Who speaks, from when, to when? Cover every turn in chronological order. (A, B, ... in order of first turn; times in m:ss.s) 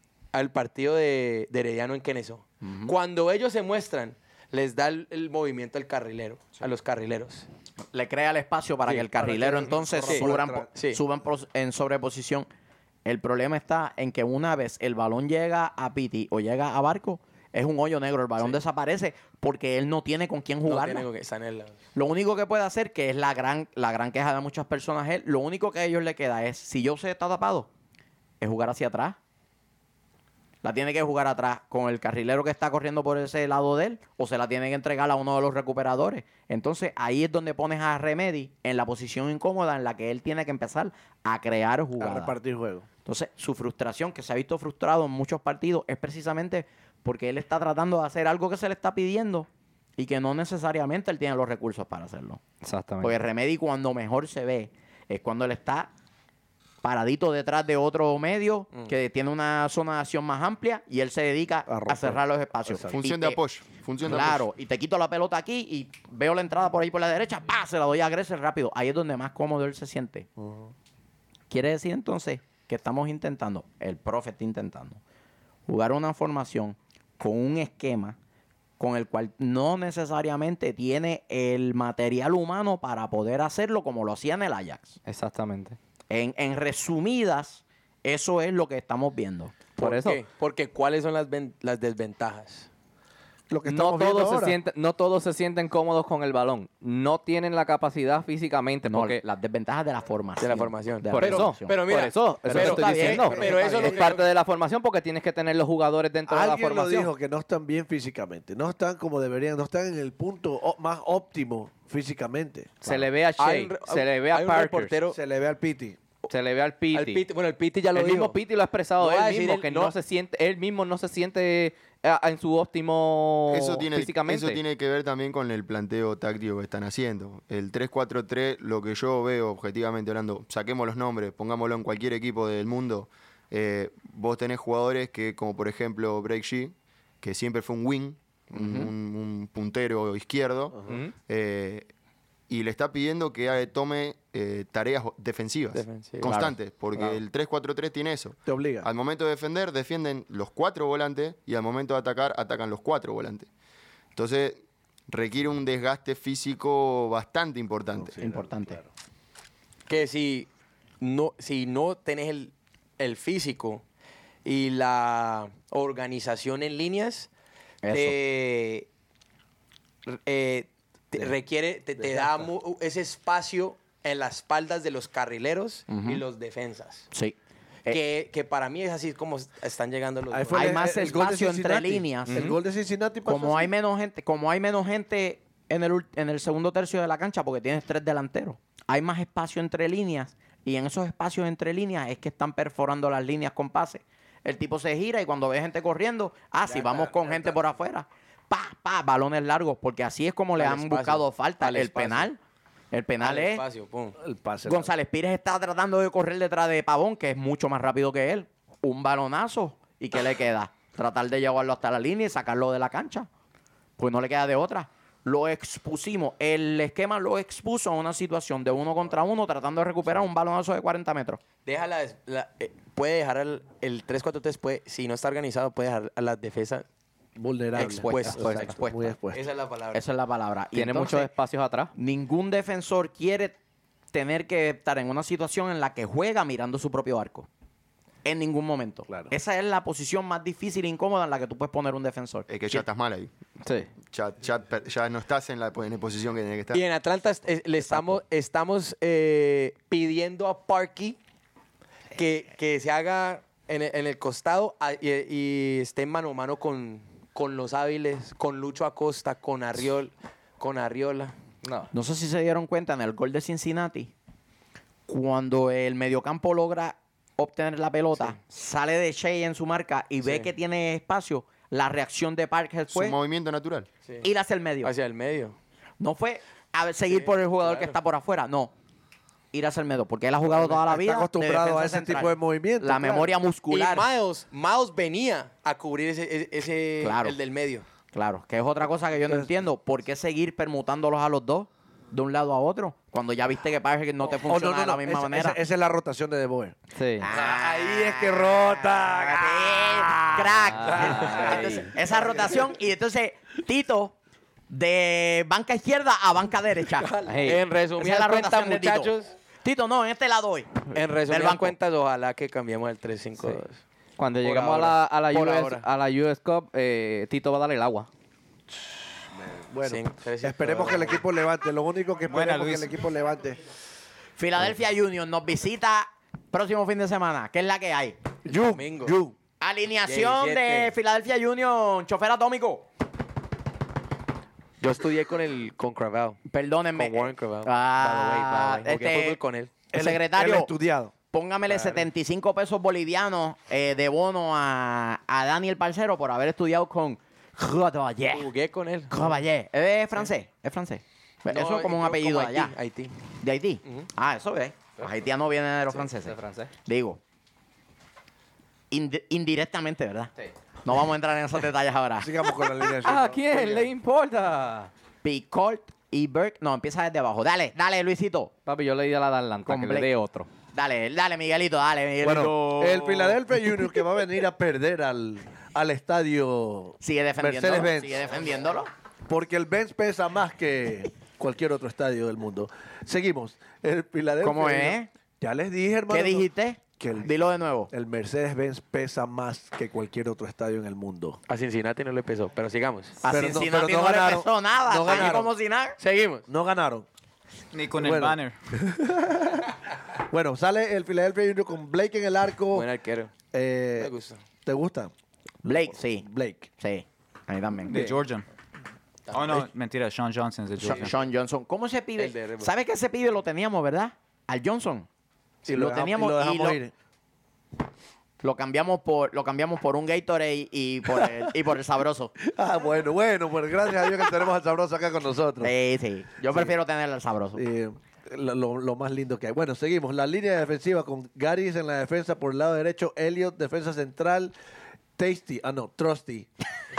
0:00.3-0:07.5 A
0:02.6-0:02.9 B
0:07.9-0:12.5 B
0:09.1-0:10.7 C
0:10.1-0:11.0 A
0:13.0-0:21.0 B
0:20.6-0:21.8 A
0:21.9-0:27.7 B
0:28.4-0:29.2 B
0:30.6-0:42.3 B
0:42.0-0:42.8 C
0:43.0-0:52.4 B
0:52.6-0:53.2 D
0:53.0-0:55.9 B
0:56.8-1:03.4 B
1:01.7-1:03.0 C
1:02.9-1:04.4 E
1:04.0-1:10.3 B
1:10.4-1:10.7 C
1:11.5-1:15.0 B
1:15.7-1:18.2 B
1:18.8-1:25.0 B
1:25.0-1:25.8 D
1:26.1-1:29.6 B
1:29.8-1:30.2 D
1:29.8-1:32.7 A
1:33.5-1:34.6 C
1:33.6-1:39.2 D
1:38.8-1:41.9 B
1:40.4-1:44.2 A
1:41.1-1:47.1 D
1:42.4-1:43.4 B
1:42.7-1:44.2 C
1:46.3-1:53.0 C
1:52.8-1:55.0 D
1:53.4-1:55.2 A
1:55.1-1:56.0 C
1:56.3-1:57.2 D
1:56.9-1:58.4 A
1:57.9-2:04.6 D
1:59.0-1:59.9 A
2:03.5-2:21.9 E
2:18.5-2:18.9 B
2:20.9-2:21.1 D
2:22.5-2:33.5 E
2:25.7-2:26.3 A
2:26.2-2:26.5 B
2:28.4-2:28.9 C
2:34.1-2:38.1 E
2:38.0-2:38.9 C
2:38.2-2:38.8 B
2:39.9-2:40.5 A
2:41.0-2:43.8 A
2:44.4-2:47.3 A
2:47.8-2:48.2 B
2:47.9-2:48.8 A
2:50.0-2:57.1 A
2:52.0-2:52.5 C
2:55.9-2:56.2 B
2:57.1-2:58.0 B
2:57.9-3:01.1 A
3:00.3-3:03.7 C
3:00.5-3:02.4 B
3:02.3-3:02.6 A
3:03.2-3:22.4 B
3:16.7-3:17.6 C
3:20.6-3:22.3 A
3:22.9-3:23.6 B
3:23.2-3:24.2 A
3:24.2-3:24.9 C
3:24.6-3:33.3 B
3:34.0-3:41.4 B
3:41.6-3:46.8 A
3:47.4-3:49.4 C
3:47.7-3:48.8 A
3:47.8-3:49.2 B
3:48.4-3:48.7 D
3:49.3-3:50.0 A
3:49.9-3:51.3 B
3:50.7-3:51.9 D
3:51.9-3:53.5 B
3:54.1-3:57.5 B
3:58.2-4:02.8 B
4:02.5-4:03.3 E
4:03.6-4:03.9 D
4:04.0-4:06.8 E
4:06.7-4:11.2 A
4:12.2-4:21.3 A
4:21.6-4:21.9 D
4:21.9-4:24.1 B
4:25.1-4:33.2 B
4:30.2-4:30.5 A
4:32.9-4:33.9 E
4:34.2-4:34.9 B
4:34.8-4:35.6 A
4:36.0-4:38.7 B
4:37.1-4:38.0 A
4:39.5-4:44.1 B
4:40.5-4:43.3 C
4:43.7-4:47.8 A
4:47.0-4:47.4 B
4:48.1-4:55.6 B
4:54.4-4:56.8 C
4:57.0-4:57.3 D
4:57.2-5:04.1 B
4:57.3-5:02.7 C
5:00.7-5:01.9 D
5:00.9-5:01.7 A
5:04.7-5:07.2 B
5:07.2-5:07.6 D
5:07.4-5:09.3 A
5:08.0-5:11.7 B
5:10.9-5:13.8 A
5:14.2-5:18.1 D
5:14.4-5:15.9 A
5:19.3-5:23.6 C
5:19.8-5:21.2 A
5:22.3-5:22.9 F
5:24.4-5:28.2 B
5:28.4-5:29.3 C
5:28.5-5:29.1 A
5:29.6-5:32.8 B
5:30.0-5:30.9 A
5:34.8-5:36.4 A
5:36.5-5:39.4 B
5:37.0-5:39.7 A
5:39.9-5:41.1 C
5:39.9-5:40.7 B
5:41.3-5:48.5 B
5:41.7-5:42.0 A
5:48.3-5:49.3 A
5:49.1-5:52.7 B
5:51.5-5:53.2 A
5:53.4-5:57.2 B
5:56.2-5:56.7 D
5:58.9-6:00.3 B
6:00.8-6:02.3 B
6:02.2-6:03.8 C
6:03.0-6:04.9 D
6:05.2-6:08.5 B
6:08.6-6:10.5 D
6:09.6-6:10.1 B
6:10.7-6:13.1 B
6:12.2-6:18.2 C
6:17.0-6:18.9 B
6:19.3-6:26.5 C
6:24.4-6:25.1 B
6:26.1-6:27.9 B
6:27.0-6:27.3 C
6:27.9-6:31.4 C
6:31.5-6:33.2 A
6:33.2-6:36.0 B
6:33.3-6:35.5 C
6:35.1-6:35.4 A
6:36.0-6:36.4 A
6:36.5-6:37.0 C
6:37.7-6:38.5 F
6:38.0-6:39.7 C
6:40.3-6:42.9 C
6:42.7-6:43.3 A
6:43.5-6:44.1 C
6:44.0-6:44.4 A
6:44.6-6:45.1 C
6:45.6-6:46.2 B
6:45.7-6:46.7 C
6:46.8-6:48.1 B
6:47.8-6:48.4 F
6:49.3-6:49.6 A
6:49.3-6:51.1 F
6:50.8-6:55.1 B
6:52.2-6:52.7 A
6:55.6-6:55.9 A
6:55.7-6:56.9 C
6:55.8-6:56.8 B
6:58.4-7:02.3 B
7:02.5-7:05.7 C
7:05.6-7:07.6 B
7:07.6-7:14.5 C
7:15.2-7:16.5 C